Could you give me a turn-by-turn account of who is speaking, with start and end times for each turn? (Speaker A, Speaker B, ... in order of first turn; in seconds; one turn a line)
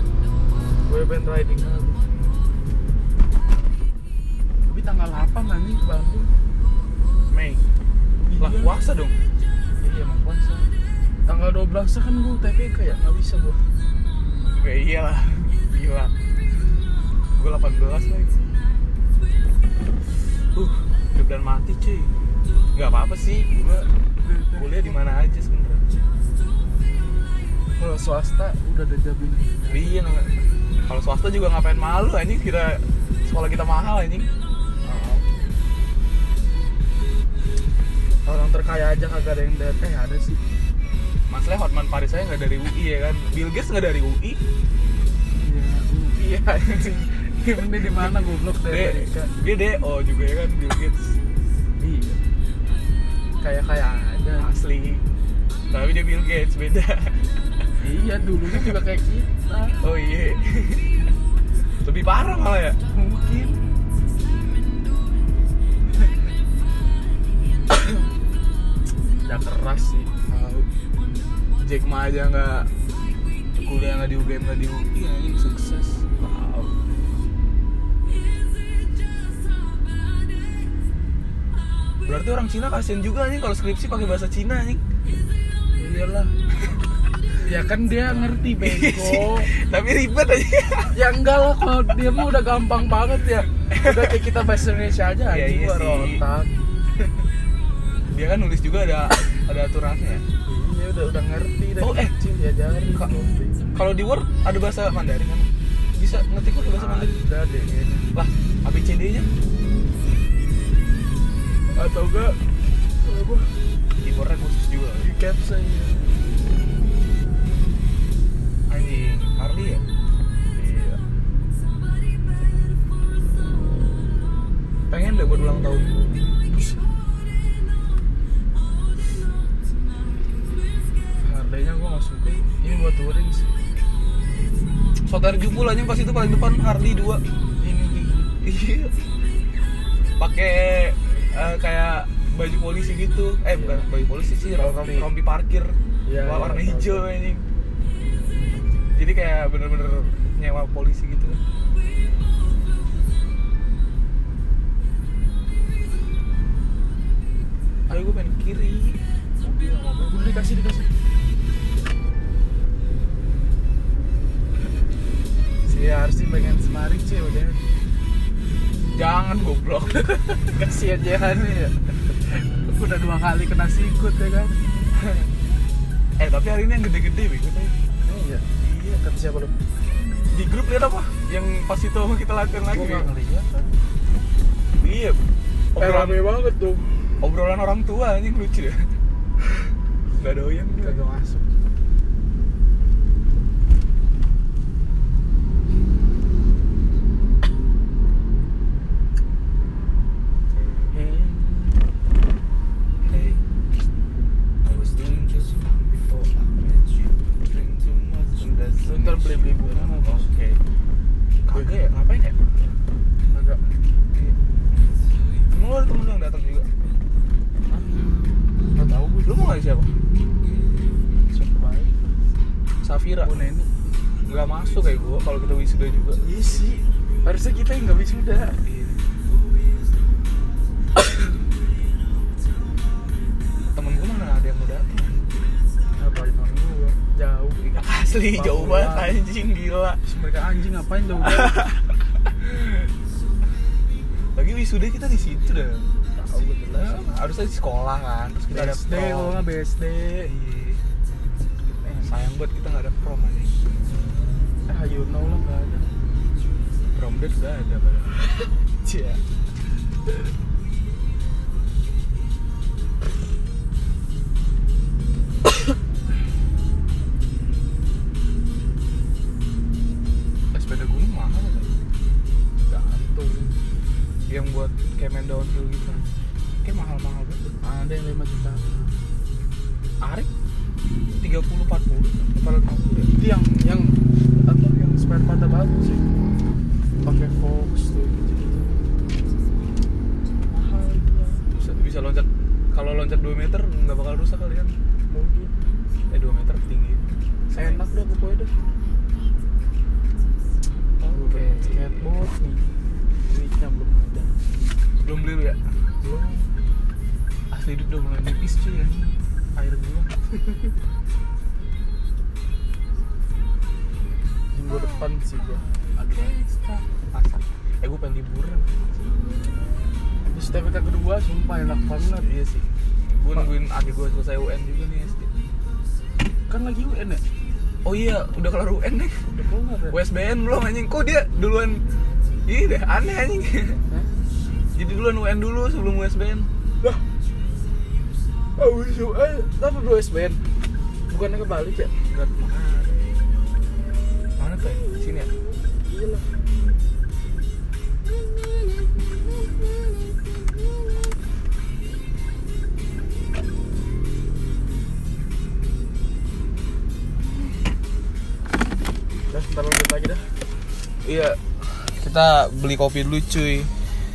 Speaker A: 0.9-2.0
Speaker A: 4.7-6.3
Speaker A: 8.3-8.8
Speaker B: 8.4-9.2
Speaker A: 9.8-10.7
Speaker A: 11.3-13.6
Speaker B: 14.5-16.1
Speaker B: 17.3-18.4
Speaker B: 20.5-22.1
Speaker B: 22.7-23.6
Speaker A: 23.6-25.0
Speaker B: 24.5-25.8
Speaker A: 27.7-29.9
Speaker B: 29.7-34.3
Speaker A: 34.8-35.2
Speaker A: 38.2-40.4
Speaker B: 41.3-44.4
Speaker A: 45.4-49.3
Speaker B: 46.2-47.0
Speaker B: 47.8-48.1
Speaker B: 48.7-51.1
Speaker A: 51.8-52.2
Speaker A: 53.4-54.5
Speaker B: 54.4-55.0
Speaker B: 55.7-57.2
Speaker A: 57.8-59.8
Speaker B: 59.8-60.9
Speaker B: 61.8-62.8
Speaker A: 62.9-63.6
Speaker A: 69.2-70.1
Speaker B: 70.3-70.7
Speaker B: 71.6-72.7
Speaker B: 73.5-76.2
Speaker A: 76.2-76.7
Speaker B: 82.0-84.8
Speaker A: 85.8-86.3
Speaker A: 87.4-89.5
Speaker B: 88.0-90.9
Speaker A: 90.9-96.5
Speaker B: 93.7-94.2
Speaker B: 95.2-96.2
Speaker B: 98.1-100.2
Speaker A: 100.5-103.6
Speaker B: 101.8-102.1
Speaker B: 103.7-107.1
Speaker A: 106.7-108.1
Speaker B: 108.1-109.3
Speaker A: 111.7-112.4
Speaker A: 113.0-113.5
Speaker B: 114.0-115.1
Speaker A: 115.0-116.0
Speaker B: 118.7-119.8
Speaker A: 120.5-121.0
Speaker B: 124.9-126.3
Speaker A: 131.2-133.6
Speaker B: 135.1-137.2
Speaker A: 137.6-138.3
Speaker B: 138.4-139.0
Speaker B: 140.2-147.4
Speaker A: 143.5-143.8
Speaker A: 144.5-145.1
Speaker A: 146.1-147.1
Speaker B: 148.9-151.4
Speaker B: 157.9-160.3
Speaker A: 160.0-160.9
Speaker A: 165.7-167.6
Speaker B: 168.9-170.6
Speaker A: 170.6-174.6
Speaker B: 176.2-177.8
Speaker A: 178.0-179.5
Speaker B: 180.3-183.1
Speaker A: 182.7-183.7
Speaker B: 184.8-185.2
Speaker B: 185.7-186.2
Speaker A: 185.8-187.1
Speaker B: 187.2-188.9
Speaker B: 190.2-191.0
Speaker A: 190.8-191.5
Speaker A: 200.9-201.8
Speaker B: 203.0-203.4
Speaker B: 204.6-210.6
Speaker A: 208.8-210.2
Speaker B: 211.4-212.6
Speaker A: 213.3-213.6
Speaker B: 215.5-216.7
Speaker A: 217.7-218.2
Speaker A: 218.7-219.5
Speaker B: 219.2-219.9
Speaker A: 221.2-222.1
Speaker B: 222.8-223.3
Speaker A: 223.2-223.7
Speaker B: 224.2-226.2
Speaker A: 226.2-228.6
Speaker B: 228.6-229.0
Speaker B: 233.7-235.3
Speaker A: 236.0-237.6
Speaker B: 237.6-240.0
Speaker A: 238.3-239.2
Speaker A: 240.0-241.7
Speaker B: 241.2-242.9
Speaker B: 244.3-245.9
Speaker A: 246.2-247.0
Speaker B: 246.8-249.4
Speaker A: 248.5-250.3
Speaker B: 250.2-250.8
Speaker A: 251.8-252.2
Speaker B: 252.0-253.6
Speaker A: 254.7-255.9
Speaker B: 256.9-258.3
Speaker A: 258.8-259.2
Speaker B: 270.5-271.7
Speaker A: 272.7-273.6
Speaker B: 274.3-276.1
Speaker B: 276.6-277.6
Speaker A: 277.6-278.8
Speaker B: 280.0-280.3
Speaker B: 281.2-283.1
Speaker A: 283.1-286.1
Speaker A: 287.0-288.8
Speaker A: 290.5-291.5
Speaker B: 291.6-294.8
Speaker A: 295.1-295.5
Speaker B: 296.1-297.8
Speaker A: 297.5-298.5
Speaker B: 301.0-302.0
Speaker A: 301.1-302.6
Speaker A: 303.3-304.5
Speaker B: 305.0-305.6
Speaker A: 306.0-306.5
Speaker B: 307.5-310.1
Speaker A: 314.5-316.4
Speaker B: 315.6-319.1
Speaker A: 320.2-322.3
Speaker B: 322.2-325.3
Speaker A: 326.5-327.2
Speaker B: 327.8-329.2
Speaker A: 329.3-330.0
Speaker B: 329.9-331.8
Speaker B: 332.4-333.8
Speaker B: 334.7-336.5
Speaker A: 338.6-340.4
Speaker A: 341.1-341.9
Speaker B: 342.1-343.0
Speaker B: 344.4-345.3
Speaker A: 345.9-346.4
Speaker A: 359.3-360.3
Speaker B: 361.0-363.7